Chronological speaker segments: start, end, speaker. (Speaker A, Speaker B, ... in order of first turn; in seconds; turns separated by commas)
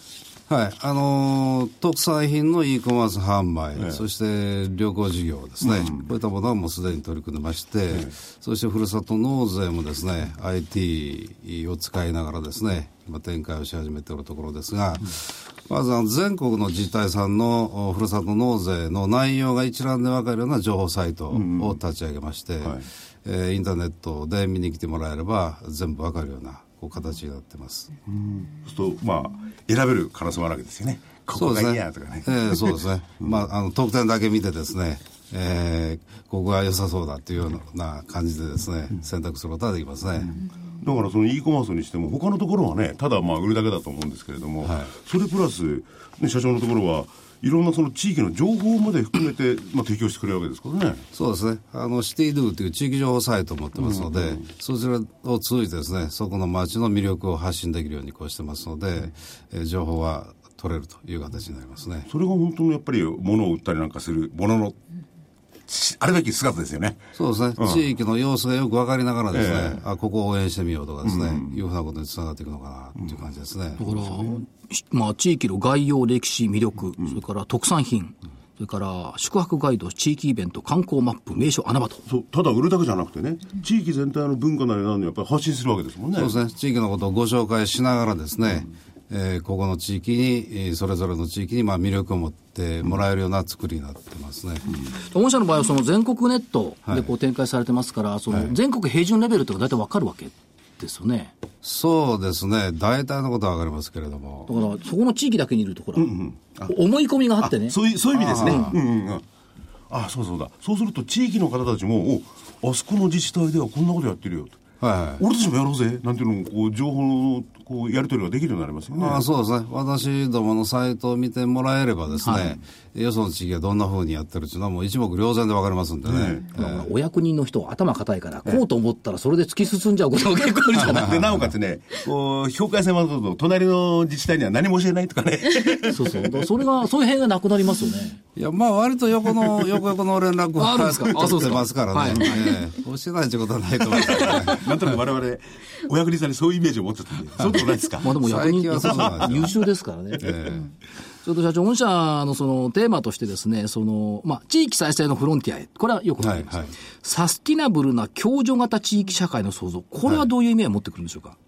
Speaker A: 0.5-27.9, Speaker B: 5.6-6.1, Speaker B: 21.3-21.8, Speaker B: 28.1-33.4, Speaker A: 31.4-40.3, Speaker B: 40.2-51.0, Speaker A: 44.6-44.9, Speaker A: 51.1-62.1, Speaker B: 53.8-54.4, Speaker B: 62.1-64.8, Speaker B: 65.7-67.1, Speaker A: 67.2-73.8, Speaker B: 67.6-67.8, Speaker B: 69.3-69.8, Speaker B: 71.0-71.6, Speaker B: 73.8-74.4, Speaker C: 73.8-82.0, Speaker B: 82.1-86.3, Speaker A: 86.1-94.7, Speaker C: 95.0-101.3, Speaker A: 101.6-104.5, Speaker C: 104.5-107.8, Speaker B: 106.0-106.7, Speaker B: 107.4-109.2, Speaker A: 108.1-108.8, Speaker C: 108.3-108.7, Speaker B: 109.9-114.6, Speaker A: 114.8-115.2, Speaker B: 115.2-119.2, Speaker A: 118.9-126.9, Speaker C: 122.2-122.6, Speaker B: 126.0-126.5, Speaker C: 126.5-131.1, Speaker B: 130.8-136.4, Speaker A: 130.8-131.5, Speaker C: 135.9-138.2, Speaker A: 138.4-144.9, Speaker C: 140.6-142.4, Speaker B: 143.9-148.2, Speaker C: 148.0-150.6, Speaker A: 148.1-149.5, Speaker B: 148.8-149.5, Speaker A: 150.2-150.6, Speaker C: 151.2-161.4, Speaker A: 156.2-156.7